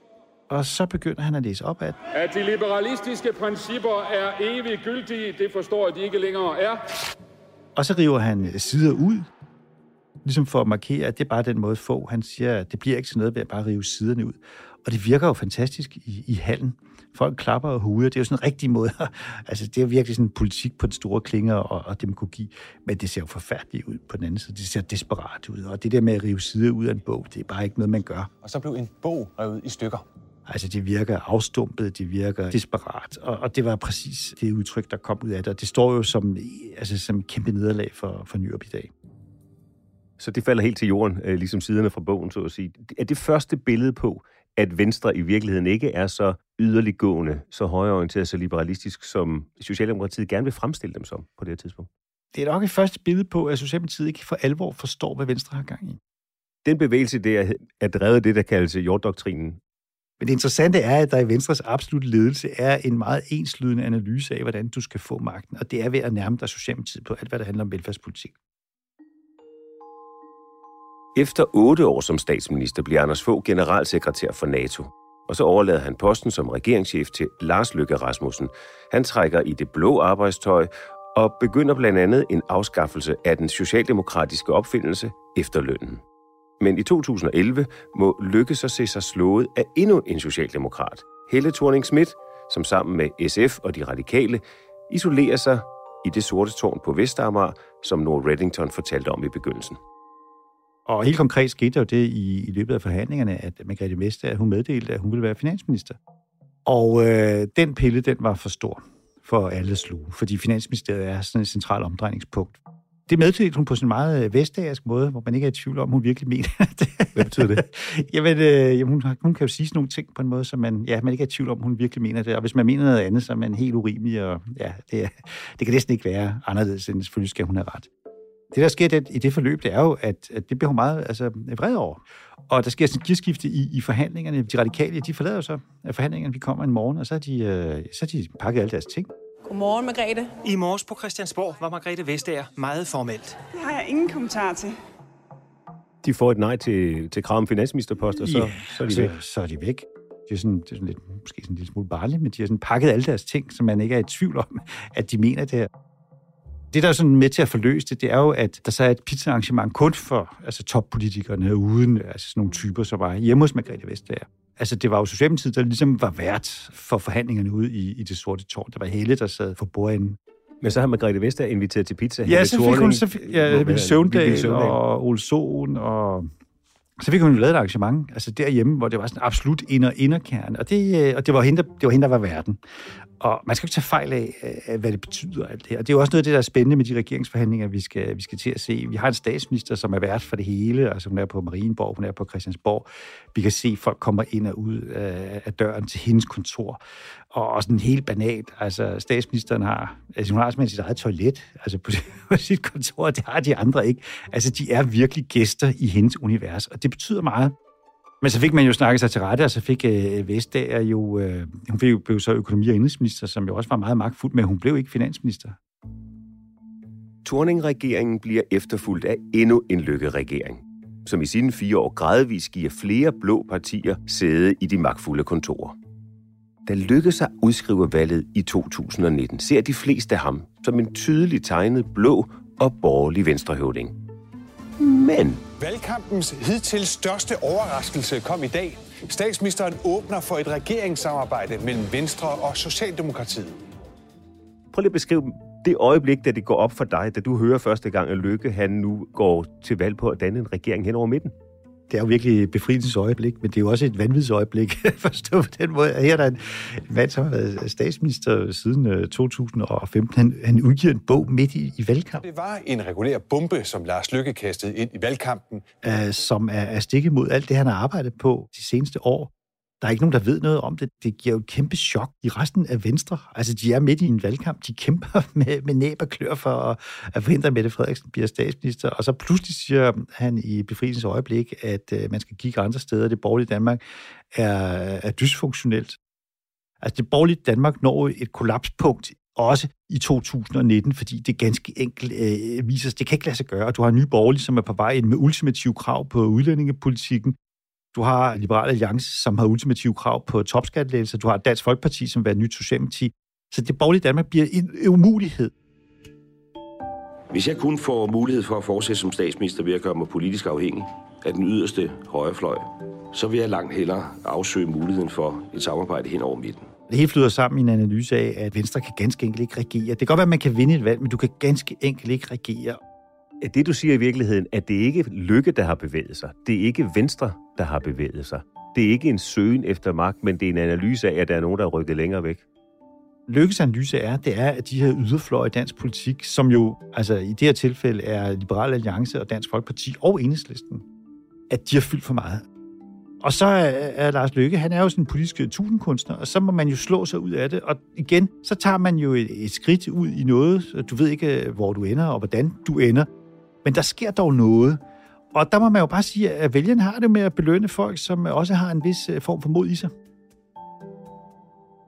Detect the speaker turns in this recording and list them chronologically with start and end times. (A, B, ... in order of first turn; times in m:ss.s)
0:00.5-0:02.0 A
0:02.1-0:06.8 B
0:07.8-0:09.3 A
0:10.2-0:28.3 A
0:28.4-0:30.0 C
0:30.5-0:38.9 A
0:40.2-0:51.9 D
0:52.3-0:56.0 A
0:56.6-0:59.6 D
1:00.2-1:08.4 A
1:11.2-1:26.0 D
1:26.6-1:39.8 D
1:40.9-1:46.0 A
1:46.7-2:07.9 A
1:57.2-1:57.6 D
2:08.5-2:19.1 A
2:19.4-2:20.4 E
2:20.4-2:23.4 F
2:23.5-2:24.8 E
2:26.0-2:29.1 D
2:28.2-2:35.7 A
2:36.7-2:50.2 A
2:50.6-2:54.8 D
2:52.2-2:56.3 A
2:57.0-3:02.6 A
3:03.2-3:16.8 A
3:17.3-3:27.6 A
3:28.2-3:35.6 A
3:37.2-3:45.8 D
3:46.7-3:54.0 D
3:54.8-3:55.4 D
3:55.6-4:03.6 C
4:04.7-4:11.3 D
4:11.9-4:22.2 A
4:22.2-4:25.6 C
4:25.8-4:43.8 A
4:44.3-4:46.0 A
4:46.8-4:57.4 A
4:57.9-5:05.5 A
5:07.3-5:16.7 G
5:16.9-5:22.8 A
5:23.4-5:32.4 D
5:33.3-5:40.8 A
5:41.5-5:42.4 A
5:43.2-5:53.1 A
5:53.6-5:54.8 A
5:55.3-5:59.9 A